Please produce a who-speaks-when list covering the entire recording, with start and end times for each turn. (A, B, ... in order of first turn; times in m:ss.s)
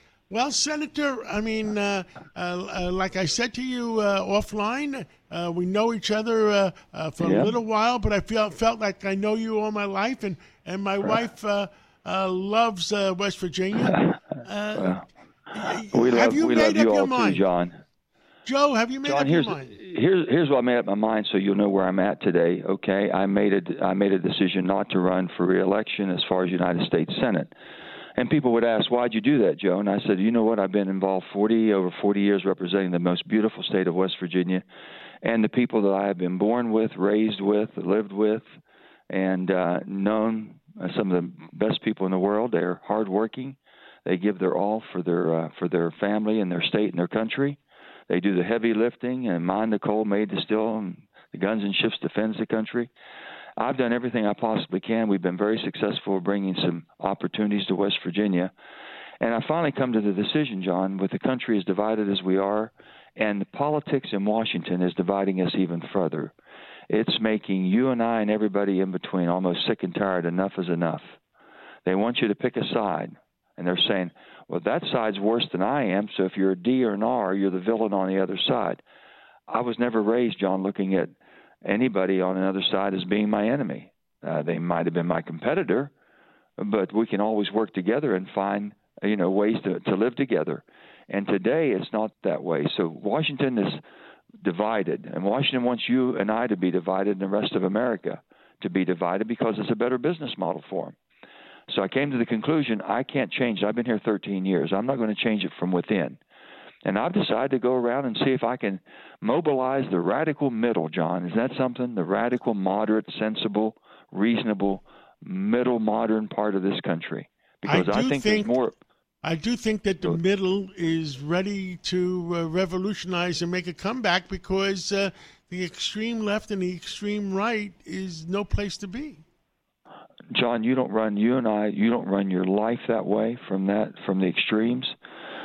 0:00.3-0:17.4 A
0:07.2-0:07.5 B
0:14.8-0:15.0 B
0:15.9-0:17.8 B
0:18.4-0:19.8 A
0:19.0-0:27.5 B
0:28.2-0:34.6 B
0:35.2-0:38.4 B
0:39.1-0:52.9 B
0:53.6-0:58.5 B
0:59.2-1:06.3 B
1:06.9-1:11.2 B
1:11.8-1:18.8 B
1:19.5-1:25.9 B
1:26.6-1:33.8 B
1:34.4-1:41.0 B
1:41.7-1:46.2 B
1:46.8-1:58.8 B
1:57.6-1:58.6 A
1:59.2-2:09.2 A
2:10.3-2:15.0 B